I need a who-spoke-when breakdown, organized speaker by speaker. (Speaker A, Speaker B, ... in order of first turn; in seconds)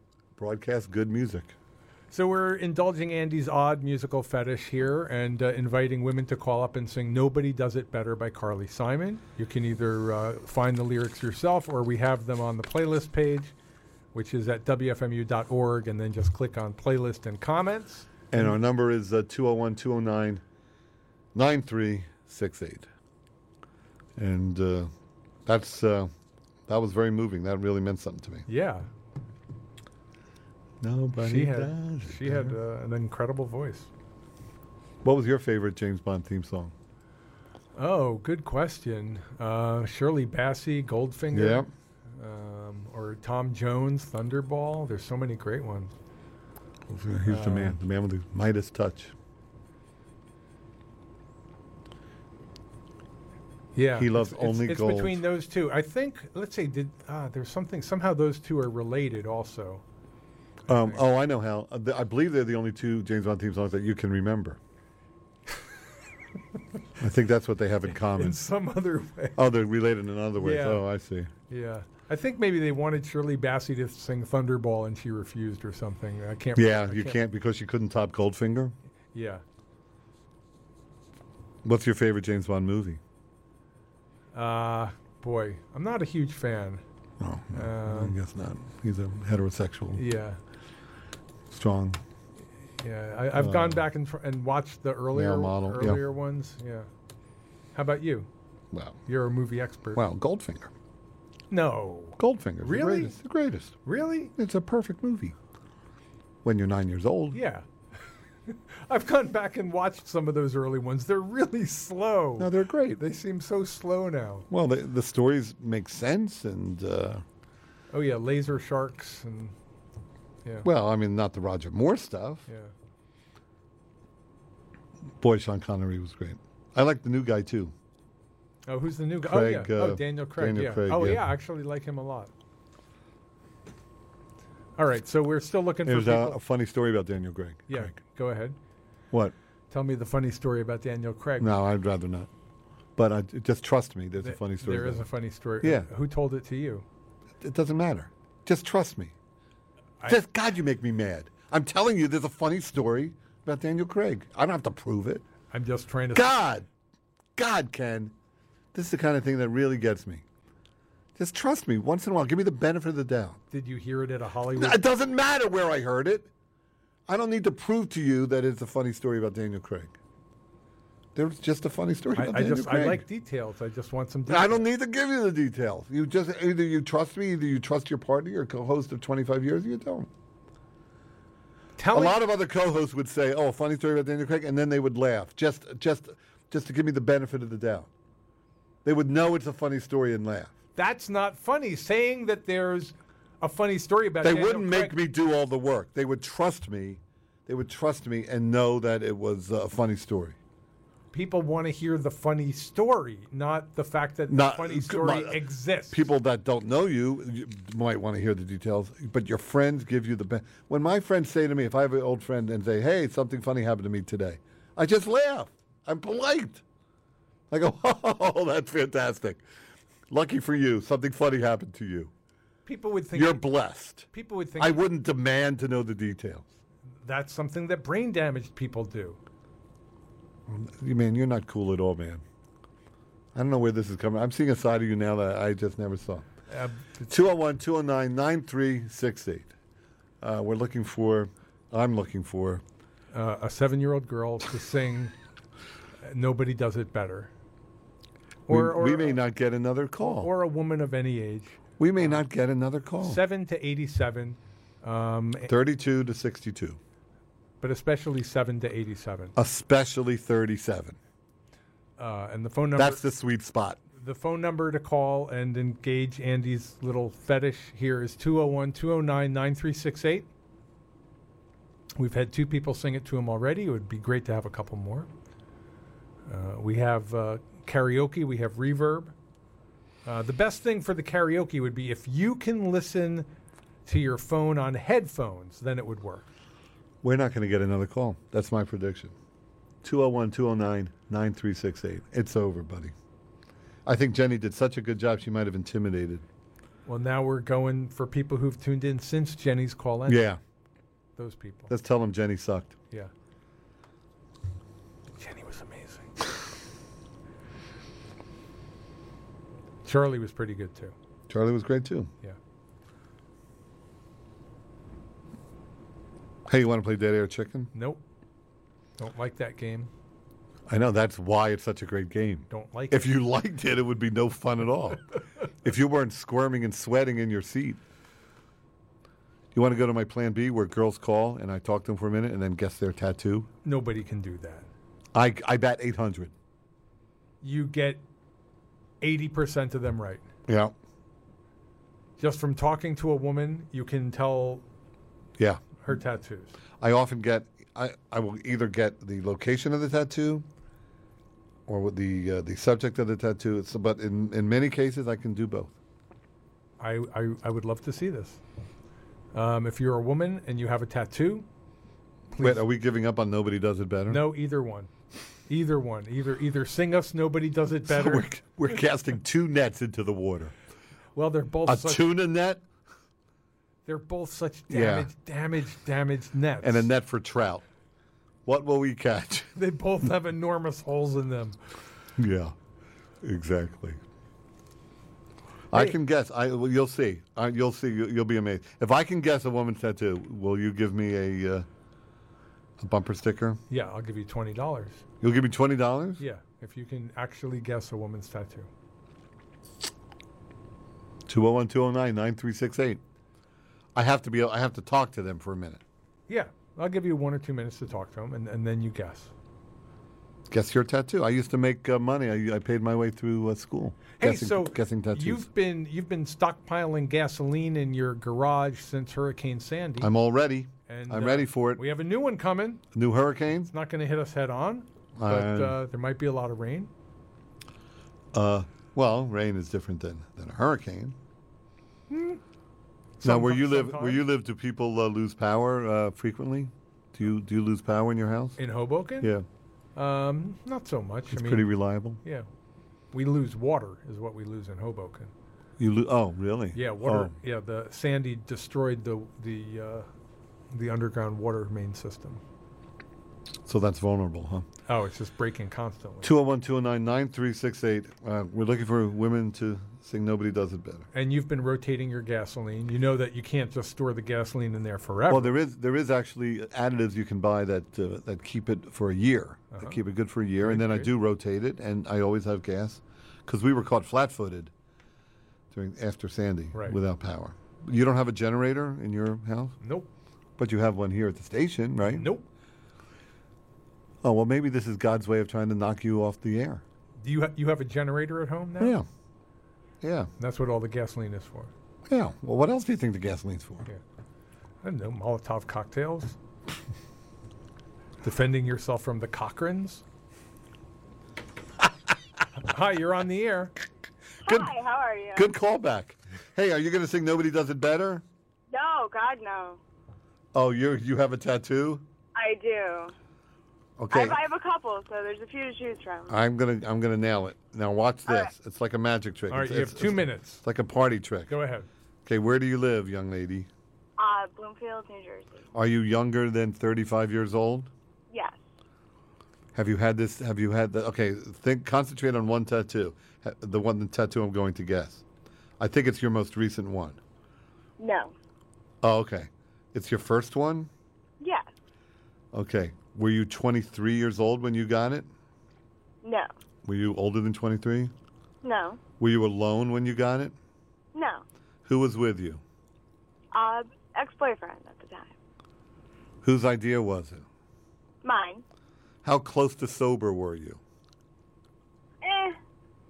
Speaker A: 0.4-1.5, 18.3-20.4, 21.3-22.9, 24.2-24.9, 25.4-26.1, 26.7-28.4, 30.8-32.5, 35.0-36.7, 41.3-41.7, 46.9-49.1, 53.9-55.2, 60.7-64.6, 67.0-68.4, 69.3-71.3, 76.5-78.7, 81.6-83.0, 87.2-90.0, 91.5-92.0, 93.3-93.8, 95.1-96.0, 98.7-99.0, 99.9-100.7, 102.2-103.8, 104.3-105.3, 106.4-107.4, 112.4-113.0, 114.5-117.2, 120.6-122.5, 125.2-127.7, 129.2-131.2, 135.8-137.9, 141.4-142.3, 142.9-145.1, 145.6-145.9, 147.4-149.1, 150.1-155.2, 156.1-156.7, 157.3-158.1, 158.7-160.2, 161.2-163.4, 164.6-166.3, 167.1-169.9, 171.1-173.0, 174.3-180.1, 181.9-187.9, 188.8-190.5, 194.2-200.4, 204.3-216.6, 217.5-219.4, 220.1-222.1, 223.1-226.5, 230.5-232.2, 233.3-236.2, 237.1-239.5, 240.2-242.6, 248.5-250.3, 251.8-253.2, 255.5-256.8, 259.4-261.0, 262.8-263.8, 287.0-289.1, 289.8-292.9, 293.9-296.2, 300.1-300.4, 301.7-302.8, 311.3-312.1, 316.5-317.7, 320.7-325.1, 325.6-327.8, 329.5-333.5, 335.1-336.3, 340.5-340.7, 345.4-345.6, 346.8-350.4, 351.7-355.7, 362.4-364.3, 367.9-370.5, 371.6-372.6, 374.7-375.1, 376.6-377.6, 378.4-379.5, 382.2-382.5, 383.2-384.0, 385.7-391.6, 392.8-393.6, 395.2-396.2, 401.3-403.0, 403.9-405.8, 410.5-415.4, 420.0-421.8, 422.9-423.7, 425.2-425.8, 428.3-431.1, 433.2-438.6, 439.2-439.4, 441.3-442.2, 445.8-447.3, 453.6-454.6, 456.2-461.1, 465.3-474.7, 475.7-479.8, 480.6-482.3, 484.2-486.8, 488.8-489.1, 490.0-490.3, 492.1-493.9, 504.4-504.7, 505.3-508.2, 510.5-512.0, 514.0-514.4, 516.3-521.5, 522.2-523.7, 525.7-527.9, 529.7-535.2, 535.8-537.2, 539.0-540.9, 542.5-545.3, 546.8-548.1, 549.2-550.5, 551.9-552.6, 556.4-557.5, 559.2-560.8
Speaker B: 2.1-13.5, 14.1-18.5, 28.5-28.9, 31.2-33.9, 37.8-45.9, 47.2-47.8, 53.7-59.8, 60.7-61.0, 67.9-69.4, 70.4-70.8, 71.5-77.2, 79.1-79.4, 84.3-86.8, 87.5-88.1, 89.9-90.4, 92.8-96.9, 97.7-98.3, 99.1-100.0, 101.5-103.2, 103.8-104.3, 107.3-107.7, 108.5-114.5, 117.9-119.5, 122.5-122.7, 128.7-132.3, 134.8-136.4, 137.7-138.6, 139.7-141.6, 144.2-146.8, 155.5-156.3, 163.5-164.8, 172.1-174.7, 181.8-182.2, 190.8-194.9, 201.1-206.0, 222.7-223.5, 224.1-224.9, 227.0-229.2, 236.5-237.1, 243.1-245.1, 246.0-247.3, 248.5-249.2, 250.0-252.2, 253.0-255.5, 257.6-259.3, 262.0-263.0, 264.0-270.3, 272.0-275.1, 276.3-279.1, 280.1-283.3, 283.9-286.2, 296.9-300.3, 301.1-301.7, 305.2-306.1, 309.8-310.9, 317.7-318.0, 319.0-319.9, 322.5-323.1, 333.6-334.7, 337.4-338.0, 339.0-340.2, 342.2-344.6, 345.8-346.5, 356.8-358.4, 359.3-361.4, 362.3-362.6, 364.1-364.9, 365.5-368.3, 371.1-372.1, 373.9-376.9, 379.6-381.6, 393.7-395.0, 396.2-398.7, 406.3-409.3, 414.2-420.1, 420.9-422.8, 423.7-426.9, 432.1-432.4, 433.2-434.2, 438.6-439.3, 439.9-442.5, 443.1-445.3, 446.7-450.1, 450.7-452.4, 454.9-456.3, 461.1-465.5, 469.7-470.0, 470.6-471.1, 479.8-480.1, 482.1-482.5, 487.2-489.0, 490.4-491.7, 494.8-496.4, 498.2-500.0, 502.6-503.7, 519.5-520.6, 521.5-521.9
Speaker C: 504.4-505.5, 508.7-509.8, 512.3-513.1, 514.1-516.3, 518.3-518.5, 524.2-525.6, 528.3-528.6, 538.0-538.3, 541.4-541.7, 546.2-546.5, 548.6-549.0, 551.1-551.4, 553.5-555.3, 558.2-558.6, 562.2-562.6